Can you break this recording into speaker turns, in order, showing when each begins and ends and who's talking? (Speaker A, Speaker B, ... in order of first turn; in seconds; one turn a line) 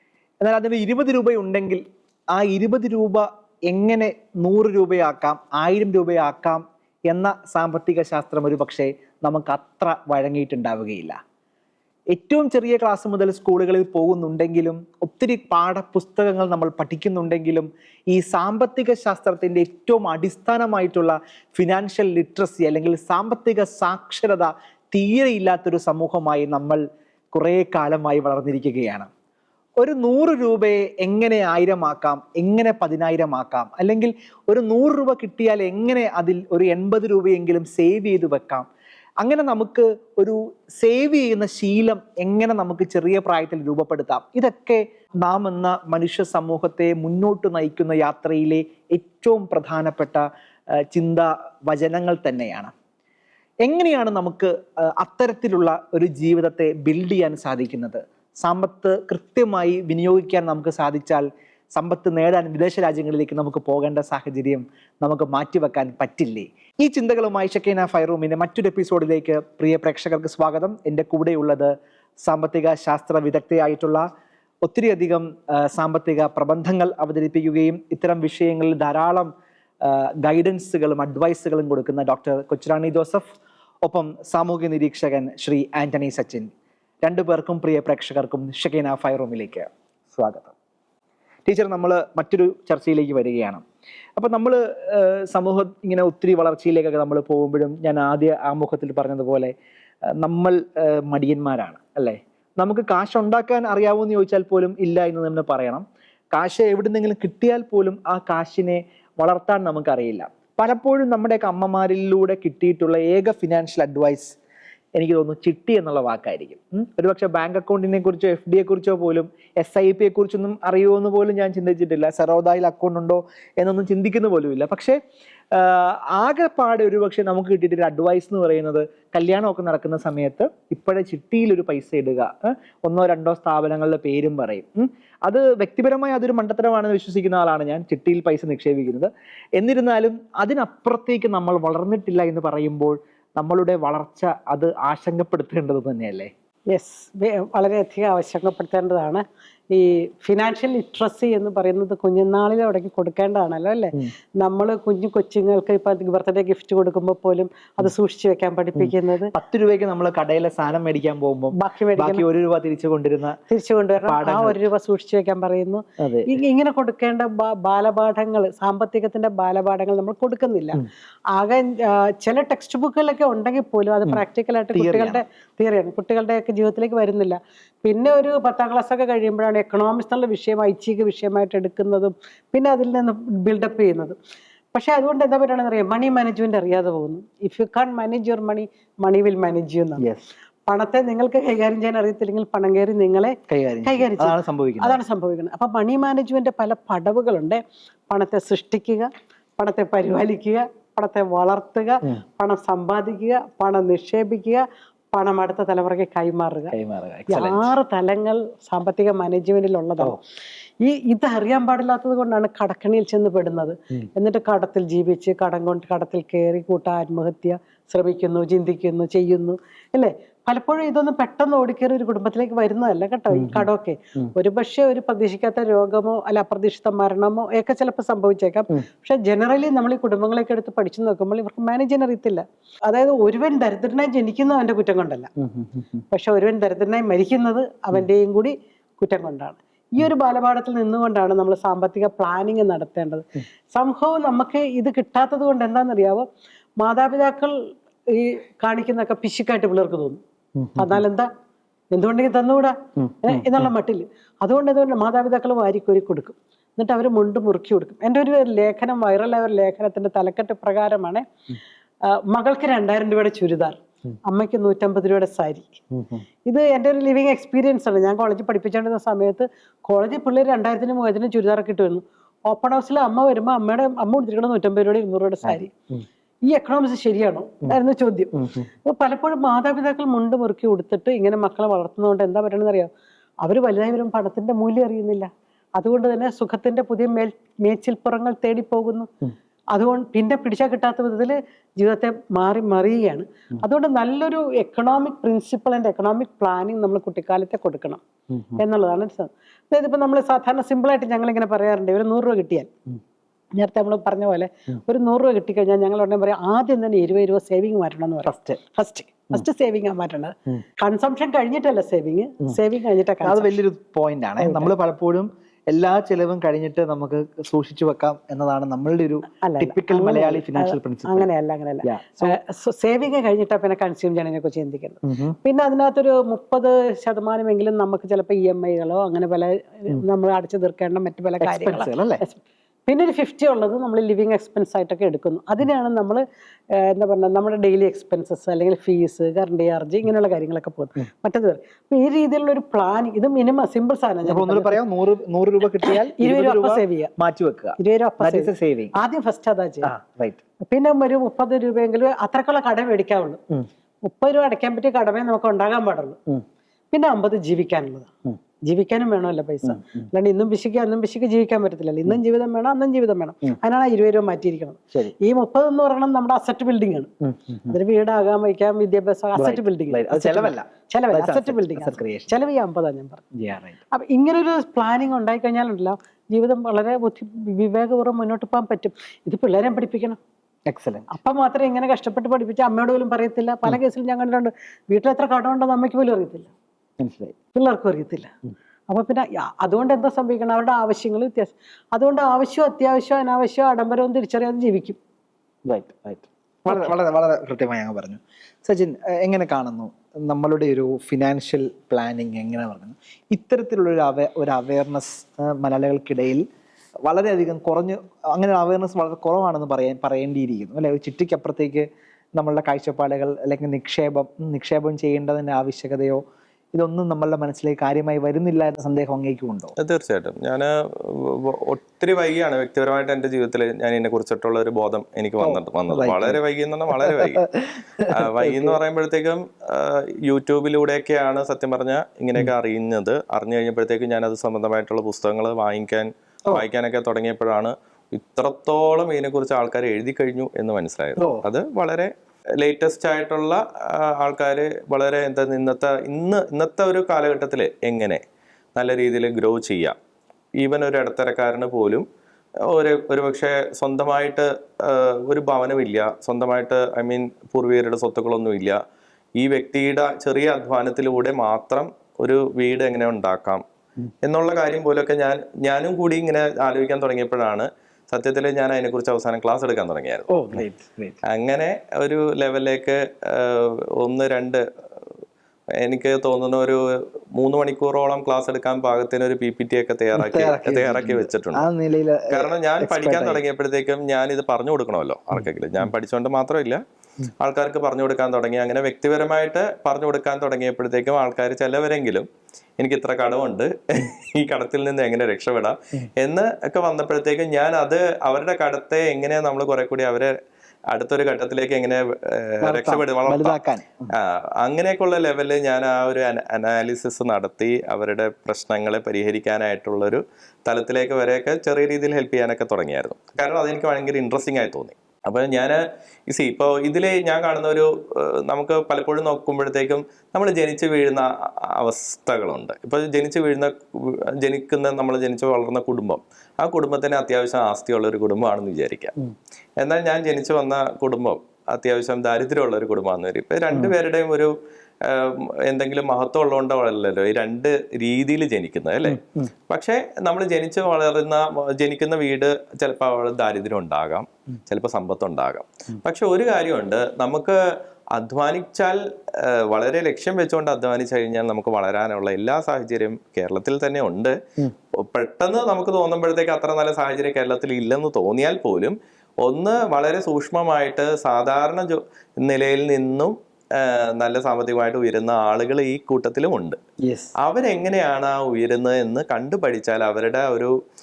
Speaker A: 0.4-11.2
Speaker A: 12.1-29.1
Speaker A: 29.8-38.7
Speaker A: 39.2-50.3
Speaker A: 50.8-52.7
Speaker A: 53.6-71.7
Speaker A: 72.2-74.0
Speaker A: 74.6-83.3
Speaker A: 83.8-86.5
Speaker A: 87.0-90.5
Speaker A: 91.5-93.6
Speaker A: 94.2-99.5
Speaker A: 100.2-114.4
Speaker A: 115.0-125.0
Speaker A: 125.5-146.3
Speaker B: 146.7-159.3
Speaker A: 158.8-163.4
Speaker B: 161.5-162.2
Speaker B: 163.5-184.2
Speaker A: 164.0-164.6
Speaker A: 166.0-166.3
Speaker A: 174.7-175.2
Speaker B: 184.7-190.1
Speaker A: 190.0-190.2
Speaker B: 190.7-206.7
Speaker A: 193.5-195.0
Speaker A: 206.7-207.7
Speaker B: 207.3-210.2
Speaker B: 210.8-235.3
Speaker A: 223.3-224.3
Speaker A: 235.4-236.0
Speaker B: 236.1-246.3
Speaker B: 246.8-250.2
Speaker A: 250.6-251.0
Speaker B: 250.8-251.3
Speaker B: 251.9-261.3
Speaker A: 253.0-253.7
Speaker B: 262.0-265.8
Speaker A: 265.9-266.2
Speaker B: 266.4-275.7
Speaker A: 275.4-276.0
Speaker B: 276.5-282.9
Speaker A: 278.3-278.7
Speaker B: 283.4-289.1
Speaker B: 289.7-298.0
Speaker A: 298.3-298.6
Speaker B: 298.6-302.7
Speaker B: 303.5-313.6
Speaker A: 308.2-308.6
Speaker A: 313.2-321.3
Speaker B: 314.4-314.7
Speaker B: 319.4-344.8
Speaker A: 321.8-322.4
Speaker A: 325.0-325.4
Speaker A: 331.4-332.2
Speaker A: 344.2-348.9
Speaker B: 345.8-347.1
Speaker B: 347.8-349.9
Speaker A: 349.8-350.4
Speaker B: 350.6-353.4
Speaker B: 354.0-356.2
Speaker B: 356.9-358.1
Speaker B: 358.6-367.1
Speaker A: 359.6-360.0
Speaker A: 367.2-367.8
Speaker B: 367.7-373.2
Speaker A: 369.4-372.4
Speaker A: 373.3-373.8
Speaker B: 373.9-380.2
Speaker A: 380.7-381.1
Speaker B: 381.1-386.5
Speaker A: 387.0-387.3
Speaker B: 387.5-388.3
Speaker B: 388.9-395.0
Speaker A: 395.6-406.4
Speaker A: 407.1-416.2
Speaker A: 416.7-419.7
Speaker C: 419.8-427.4
Speaker A: 425.4-426.4
Speaker A: 426.9-428.8
Speaker C: 428.1-448.2
Speaker A: 441.2-441.4
Speaker C: 448.7-449.9
Speaker C: 450.6-452.0
Speaker C: 452.6-458.8
Speaker C: 459.4-463.6
Speaker C: 464.2-470.3
Speaker A: 470.3-471.2
Speaker C: 471.2-474.6
Speaker C: 475.8-481.6
Speaker A: 480.1-483.4
Speaker C: 482.3-486.8
Speaker C: 487.4-492.3
Speaker C: 492.8-500.3
Speaker C: 500.9-503.6
Speaker A: 502.6-504.1
Speaker C: 504.1-529.1
Speaker C: 529.8-547.6
Speaker A: 539.1-539.5
Speaker C: 548.1-554.4
Speaker C: 554.9-566.8
Speaker A: 567.0-567.3
Speaker C: 567.4-570.7